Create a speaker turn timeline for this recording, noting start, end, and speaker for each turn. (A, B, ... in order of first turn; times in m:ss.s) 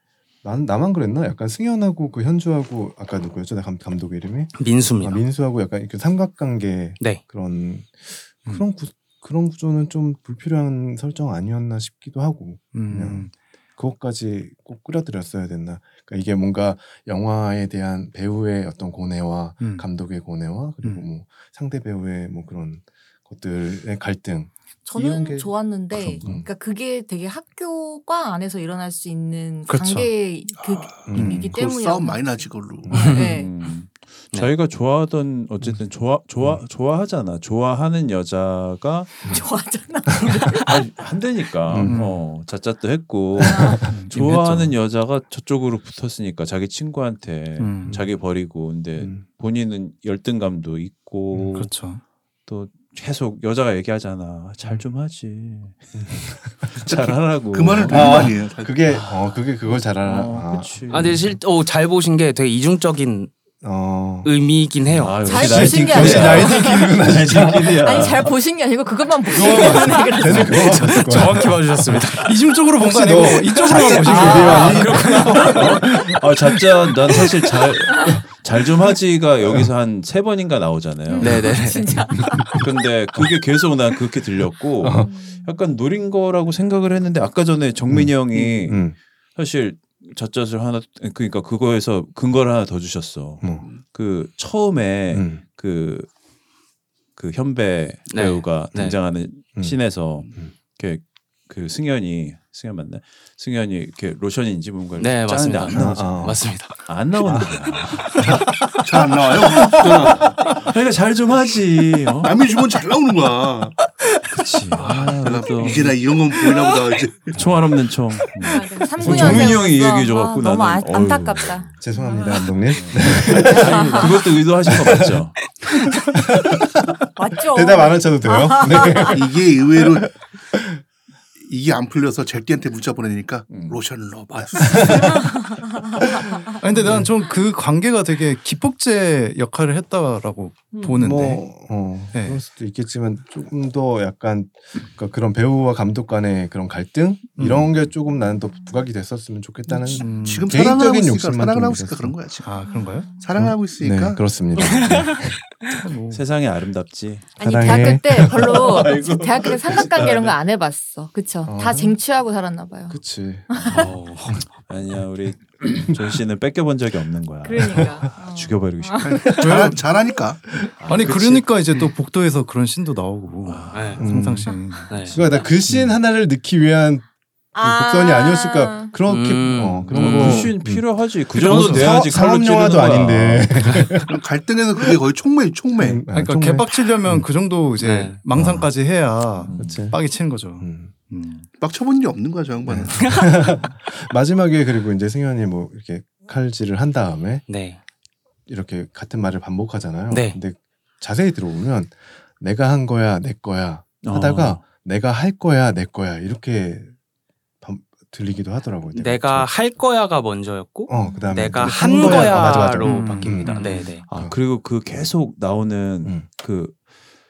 0:00.4-0:26.5 A
0:04.6-0:05.2 B
0:12.7-0:13.3 C
0:19.6-0:19.9 C
0:24.9-0:33.6 D
0:29.7-0:30.1 C
0:30.5-0:33.1 E
0:31.1-0:31.5 A
0:31.2-0:31.5 C
0:33.0-0:33.3 B
0:33.1-0:39.4 F
0:39.2-0:40.9 D
0:40.5-0:51.7 F
0:41.7-0:42.0 A
0:41.8-0:42.2 C
0:43.4-0:43.9 D
0:43.4-0:44.0 A
0:43.9-0:44.8 C
0:47.6-0:48.0 C
0:49.0-0:49.2 A
0:51.5-0:52.0 C
0:52.5-0:58.3 F
0:56.9-0:58.8 E
0:57.9-1:01.3 A
0:59.9-1:01.3 F
1:00.9-1:03.3 B
1:03.6-1:04.3 A
1:04.2-1:05.3 B
1:05.0-1:08.3 F
1:05.2-1:11.1 D
1:05.4-1:08.0 A
1:06.0-1:06.4 C
1:09.3-1:11.5 A
1:10.2-1:10.5 F
1:10.5-1:12.3 B
1:12.1-1:16.2 C
1:12.8-1:15.7 A
1:13.7-1:15.8 B
1:14.1-1:14.8 D
1:15.0-1:21.6 F
1:21.1-1:22.7 D
1:21.2-1:21.9 B
1:22.2-1:22.6 A
1:22.3-1:36.1 F
1:24.8-1:25.1 A
1:24.9-1:25.6 D
1:27.9-1:29.0 A
1:35.1-1:35.4 A
1:37.2-1:52.3 F
1:38.1-1:39.0 B
1:39.6-1:39.8 A
1:45.0-1:46.9 B
1:45.7-1:46.4 A
1:48.1-1:48.4 B
1:48.8-1:50.4 E
1:52.2-1:53.8 E
1:54.4-1:56.0 F
1:54.8-1:55.2 B
1:55.2-1:57.5 E
1:56.4-1:56.7 B
1:57.3-2:01.7 F
1:58.4-2:04.4 D
1:59.0-1:59.6 A
2:01.8-2:04.1 A
2:02.7-2:05.5 F
2:04.7-2:05.2 A
2:06.2-2:06.6 A
2:07.2-2:09.3 D
2:07.4-2:10.8 A
2:09.1-2:10.2 E
2:11.4-2:15.3 E
2:13.5-2:13.8 F
2:14.7-2:15.1 A
2:14.9-2:16.6 D
2:16.6-2:21.4 C
2:20.8-2:32.2 A
2:22.1-2:22.4 C
2:27.4-2:27.7 C
2:28.3-2:28.8 D
2:29.7-2:32.6 E
2:30.0-2:30.7 C
2:32.4-2:33.1 C
2:32.6-2:33.3 D
2:33.2-2:34.2 E
2:33.4-2:35.4 A
2:35.7-2:36.2 C
2:36.1-2:38.0 F
2:37.4-2:43.9 D
2:37.4-2:39.2 A
2:38.8-2:39.2 F
2:40.0-2:40.3 F
2:41.5-2:42.0 A
2:42.9-2:43.6 A
2:43.6-2:49.3 F
2:43.7-2:44.4 B
2:45.7-2:46.0 A
2:47.4-2:49.4 D
2:47.8-2:48.1 A
2:49.0-2:50.4 E
2:49.4-2:49.8 C
2:50.8-2:51.5 F
2:50.9-2:55.2 C
2:53.4-2:54.1 F
2:53.7-2:54.0 B
2:54.0-2:57.1 A
2:54.9-2:55.2 B
2:57.5-2:59.0 D
2:57.6-3:04.1 A
2:59.1-3:00.4 B
2:59.9-3:03.9 F
3:00.0-3:00.5 C
3:01.4-3:02.0 C
3:04.1-3:06.0 E
3:05.8-3:07.3 A
3:06.1-3:11.5 C
3:07.8-3:08.2 B
3:08.3-3:08.7 A
3:09.4-3:09.8 F
3:09.5-3:10.0 A
3:10.5-3:10.9 A
3:11.6-3:13.1 E
3:12.7-3:17.4 A
3:13.0-3:13.4 B
3:17.5-3:17.8 B
3:18.5-3:27.0 A
3:20.1-3:20.4 B
3:24.0-3:24.6 F
3:27.6-3:29.5 A
3:28.9-3:34.0 B
3:30.9-3:33.6 A
3:30.9-3:31.3 D
3:32.0-3:33.9 C
3:33.5-3:36.8 F
3:34.1-3:34.4 A